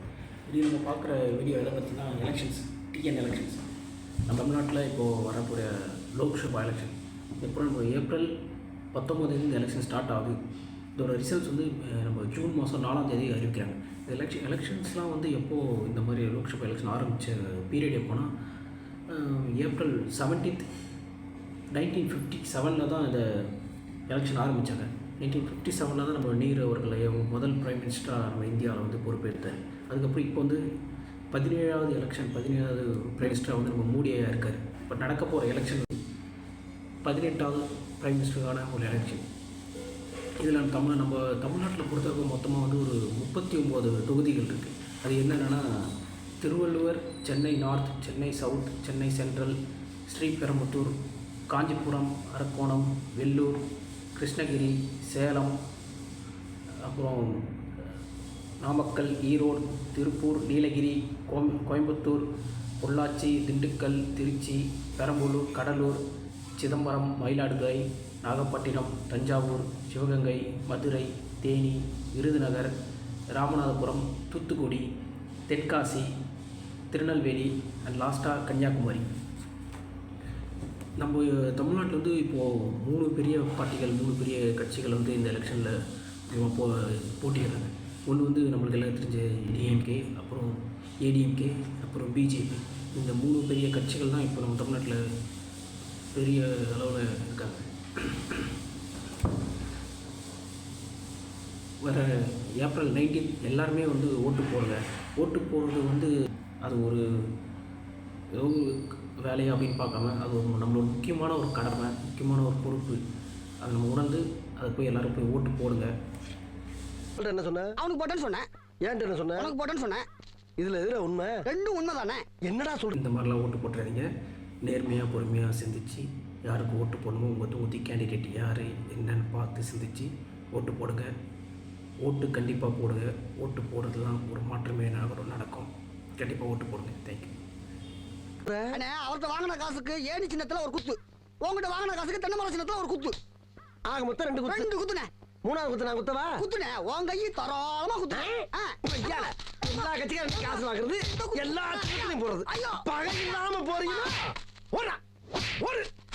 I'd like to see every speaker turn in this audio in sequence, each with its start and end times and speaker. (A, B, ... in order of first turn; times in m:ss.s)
0:00.4-0:03.7 A
0:04.2-0:08.3 A
0:08.9-0:10.4 A
0:10.9-0:18.3 A
0:19.1-0:20.7 A
0:21.7-0:23.5 A
0:24.1-0:30.6 A
0:31.3-0:36.0 A
0:37.0-0:39.2 A
0:40.4-0:51.0 A
0:51.5-0:55.6 A
0:56.8-0:57.5 A
0:58.6-1:06.0 A
1:06.6-1:12.7 A
1:13.3-1:14.9 A
1:15.5-1:16.1 A
1:16.9-1:19.1 A
1:21.0-1:35.1 A
1:36.1-1:38.5 A
1:41.8-1:47.3 A
1:48.3-1:53.0 A
1:53.6-1:55.9 A
1:57.2-1:57.7 B
1:57.8-1:58.5 C
1:58.8-1:59.5 B
1:59.4-2:00.0 C
2:00.6-2:01.4 B
2:01.4-2:02.2 C
2:02.4-2:03.0 B
2:02.9-2:04.1 A
2:04.6-2:11.1 A
2:12.0-2:17.4 A
2:18.4-2:18.8 B
2:18.7-2:23.2 C
2:23.9-2:24.7 B
2:24.4-2:25.1 C
2:25.4-2:26.4 B
2:26.4-2:32.9 C
2:28.1-2:35.0 B
2:33.9-2:34.1 C
2:35.6-2:35.9 B